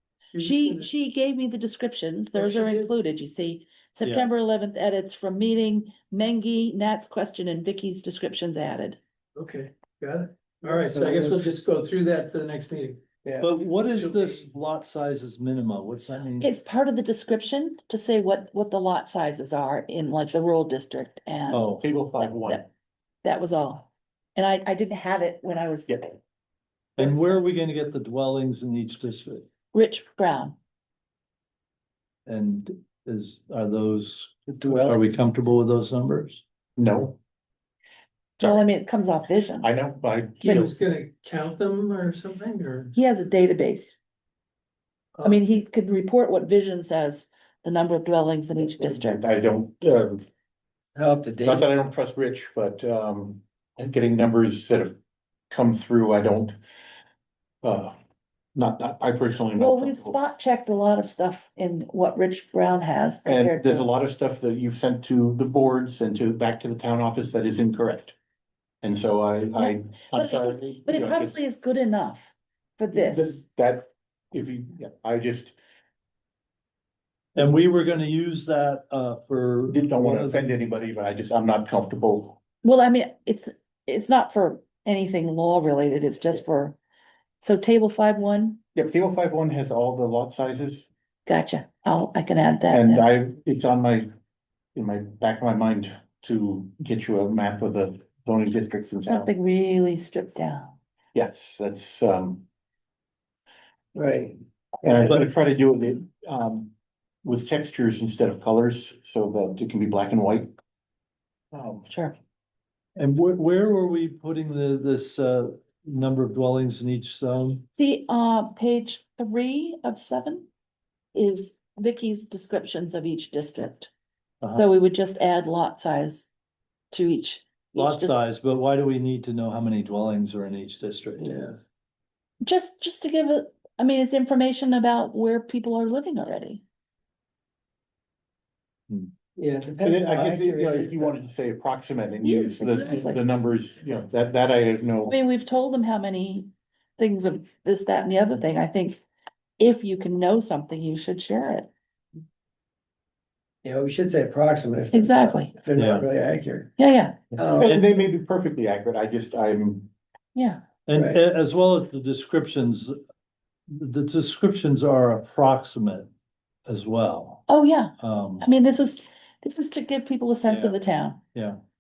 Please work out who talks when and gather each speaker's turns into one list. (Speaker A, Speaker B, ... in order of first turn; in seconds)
Speaker A: 0.3-0.9, 2.4-2.9, 9.4-13.0, 13.9-14.4, 40.4-42.9
Speaker B: 0.4-9.0, 16.4-22.7, 23.2-26.2, 27.0-27.4, 29.7-30.6, 38.4-39.7, 40.4-40.7, 42.9-44.0, 45.2-49.2, 59.6-63.9, 69.5-73.4, 82.6-86.8, 87.4-88.6, 91.3-93.1, 99.0-100.8, 111.9-112.2, 117.7-120.5, 121.1-123.9, 124.5-126.3, 126.9-128.2, 132.4-136.6, 142.2-143.2, 145.1-149.0, 149.6-151.7, 154.9-155.5, 156.8-157.2, 160.3-160.6, 167.5-171.2
Speaker C: 10.6-11.5, 34.6-35.1, 51.0-51.7, 104.0-105.1, 139.4-141.2, 153.6-156.7, 157.4-157.7
Speaker D: 13.4-16.5, 21.5-21.9, 27.0-29.5, 32.3-36.4, 77.4-80.5, 113.0-117.7, 127.8-131.5, 155.8-156.1, 160.9-163.0, 163.7-166.1, 166.7-167.5, 168.0-168.5
Speaker E: 21.8-22.7, 36.8-37.2, 38.4-38.6, 39.6-40.7, 48.7-50.2, 51.4-55.0, 55.5-56.6, 57.6-58.0, 58.5-60.2, 63.2-68.2, 68.8-71.4, 72.9-75.6, 79.7-82.4, 88.8-90.9, 92.7-94.1, 94.8-99.3, 101.2-102.5, 104.8-110.5, 111.5-111.9, 139.8-145.2, 157.3-159.9, 170.5-170.7